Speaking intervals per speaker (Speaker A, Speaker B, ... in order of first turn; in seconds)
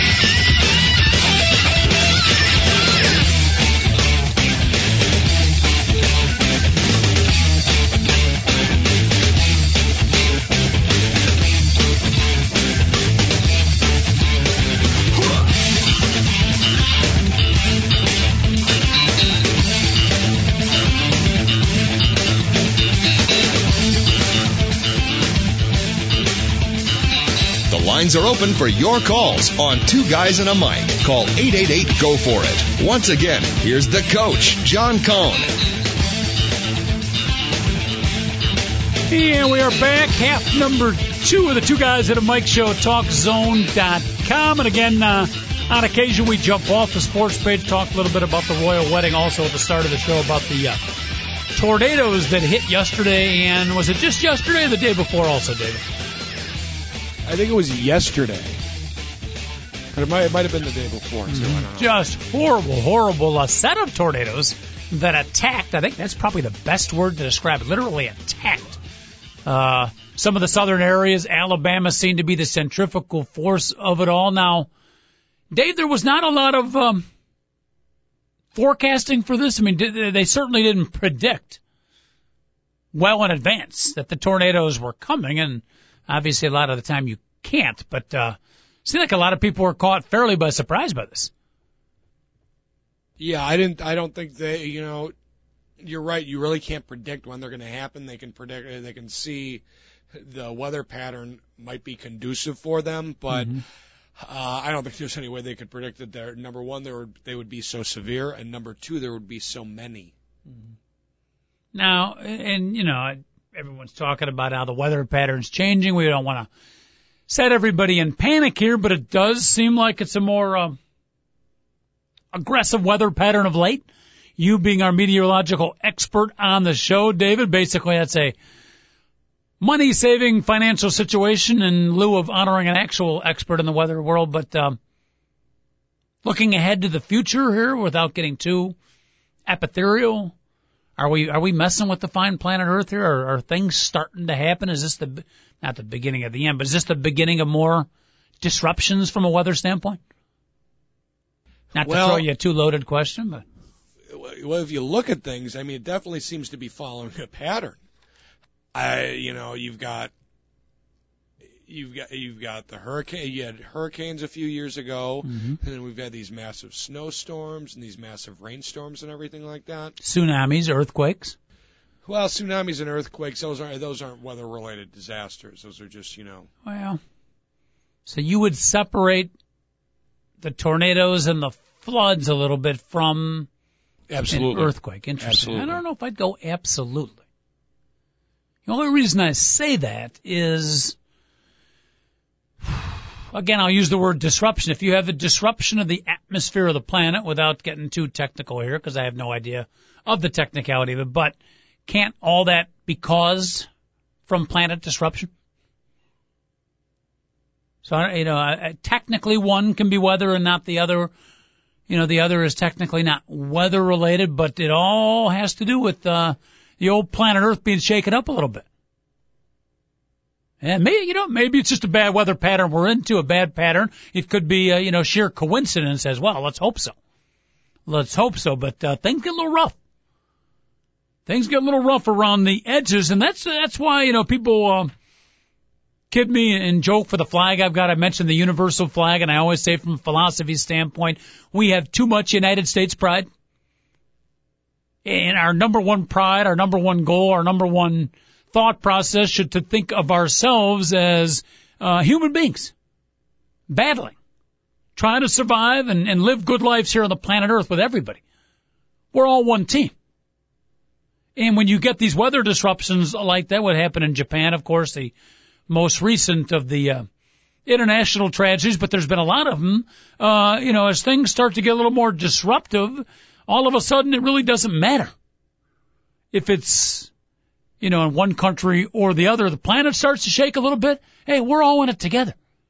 Speaker A: 27.7-35.5
Speaker B: 39.1-50.8, 51.5-55.8, 61.3-68.8, 69.5-74.7, 75.5-77.1, 78.5-81.6, 82.9-91.3, 103.3-103.6, 111.7-116.5, 117.3-120.8, 122.3-123.8, 124.4-128.3, 129.6-134.8, 136.2-138.8, 139.5-140.3, 141.0-147.9, 148.4-150.0, 151.8-153.4, 165.2-165.6, 170.0-171.4, 176.7-177.0, 178.1-179.3, 180.4-183.5, 184.3-187.2, 188.7-191.0, 193.3-203.7, 204.3-205.3, 207.8-211.1, 211.9-218.7, 220.6-226.9, 227.9-229.8, 231.3-234.9, 236.1-243.3, 245.1-252.7, 253.7-254.2, 255.0-258.2, 259.1-259.9, 261.4-265.1, 265.7-267.1, 267.7-275.1, 276.3-277.1, 277.8-282.4
Speaker C: 57.3-58.6, 59.9-61.9, 93.2-95.1, 95.8-99.6, 100.2-103.6, 104.2-110.1, 151.7-152.2, 154.1-157.8, 158.7-160.1, 161.7-170.0, 172.1-176.5, 184.1-185.8